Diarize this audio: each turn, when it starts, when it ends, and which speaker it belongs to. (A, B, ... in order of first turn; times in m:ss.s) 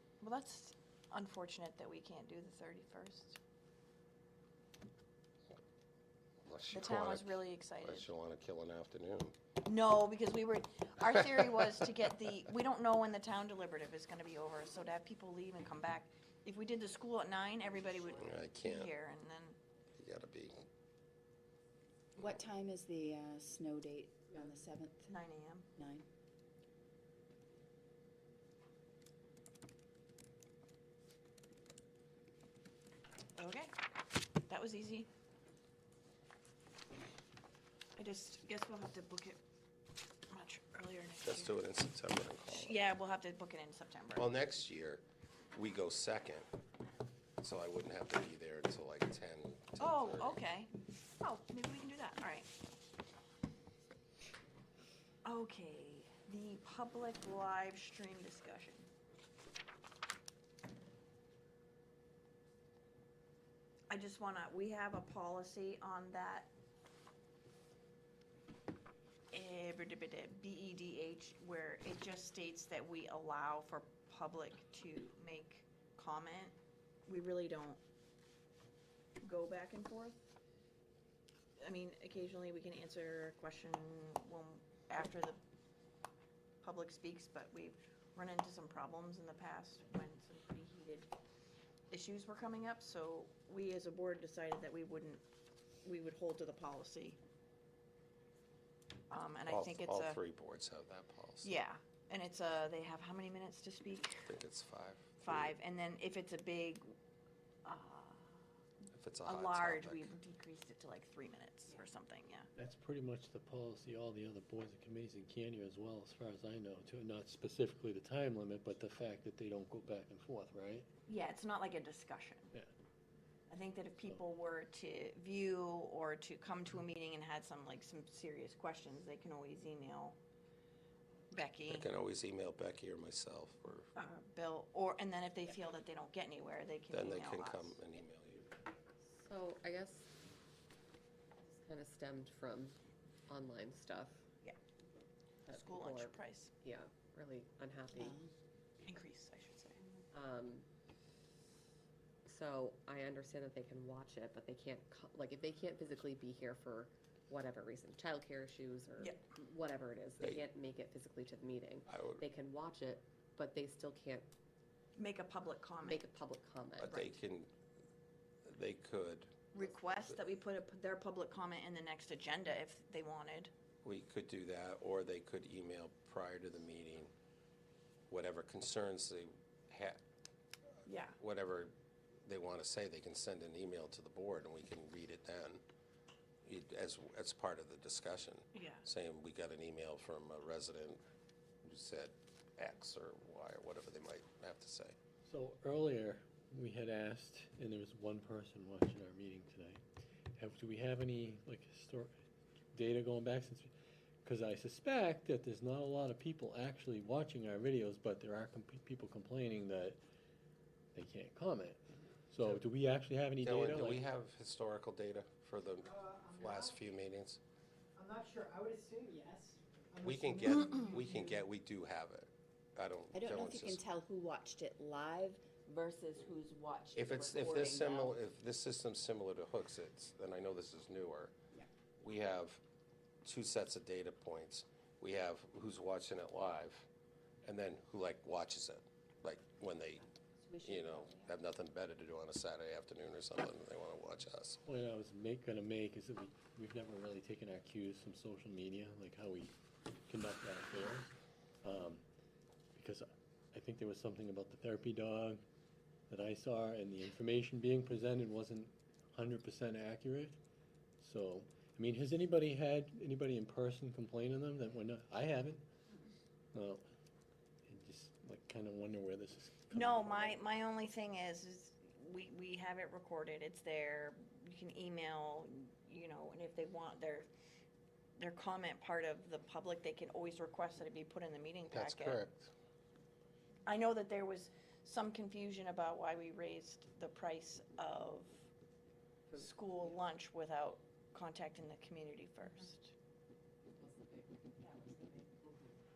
0:00.2-0:03.4 A
0:06.4-0:09.3 B
0:06.7-0:08.1 A
0:09.6-0:19.6 A
0:18.1-0:18.9 B
0:20.0-0:20.6 B
0:22.2-0:25.1 C
0:25.1-0:25.7 A
0:25.8-0:26.0 C
0:33.4-0:33.7 A
0:34.5-0:35.1 A
0:38.0-0:39.4 A
0:40.3-0:41.5 A
0:41.2-0:42.8 B
0:42.5-0:44.2 A
0:44.2-0:45.0 B
0:45.5-0:46.4 B
0:47.4-0:50.4 B
0:49.8-0:52.5 A
0:55.2-0:58.9 A
1:03.9-1:06.5 A
1:09.3-1:16.5 A
1:17.1-1:17.8 A
1:19.2-1:20.2 A
1:21.6-1:25.4 A
1:26.6-1:31.1 A
1:31.9-1:35.2 A
1:35.8-1:37.2 A
1:39.1-1:40.2 A
1:39.4-1:41.5 B
1:41.4-1:44.3 A
1:44.3-1:45.5 B
1:45.2-1:46.9 A
1:47.6-1:48.3 A
1:48.9-1:50.1 B
1:49.2-1:52.5 A
1:52.5-2:00.9 D
2:01.1-2:02.5 A
2:03.5-2:10.2 A
2:11.3-2:11.9 A
2:11.6-2:13.9 B
2:14.0-2:17.8 A
2:16.9-2:18.5 B
2:19.0-2:20.1 E
2:21.4-2:24.2 E
2:25.5-2:28.1 E
2:25.5-2:26.5 A
2:27.9-2:28.3 C
2:28.8-2:29.8 A
2:30.1-2:30.6 E
2:32.2-2:44.3 E
2:39.0-2:39.2 A
2:40.2-2:40.5 B
2:41.9-2:42.2 B
2:45.0-2:46.1 A
2:45.8-2:46.8 E
2:46.8-2:47.5 B
2:46.8-2:47.2 A
2:48.4-2:49.5 B
2:49.5-2:53.5 A
2:53.8-2:57.1 B
2:58.1-3:00.0 B
3:00.8-3:01.2 A
3:01.2-3:01.7 B
3:02.2-3:05.6 B
3:06.4-3:11.0 B
3:08.5-3:08.8 A
3:11.6-3:15.0 B
3:15.2-3:19.8 D
3:20.4-3:22.2 D
3:22.7-3:23.7 D
3:24.2-3:30.0 D
3:30.9-3:34.0 D
3:33.4-3:37.4 B
3:35.8-3:36.8 F
3:38.0-3:41.4 F
3:40.0-3:43.8 B
3:43.1-3:46.4 C
3:45.7-3:48.1 A
3:46.9-3:51.3 B
3:52.0-3:52.6 B
3:53.2-3:56.9 B
3:57.4-4:00.1 B
4:00.5-4:01.1 C
4:00.6-4:04.6 B
4:04.6-4:09.5 D
4:10.1-4:11.1 D
4:11.6-4:12.0 D
4:12.7-4:15.4 D
4:16.1-4:20.4 D
4:21.0-4:25.6 D
4:26.5-4:26.8 D
4:27.7-4:30.4 D
4:29.7-4:37.3 A
4:38.2-4:42.2 A
4:41.7-4:42.5 B
4:43.6-4:48.4 A
4:49.3-4:52.9 A
4:53.8-4:55.3 E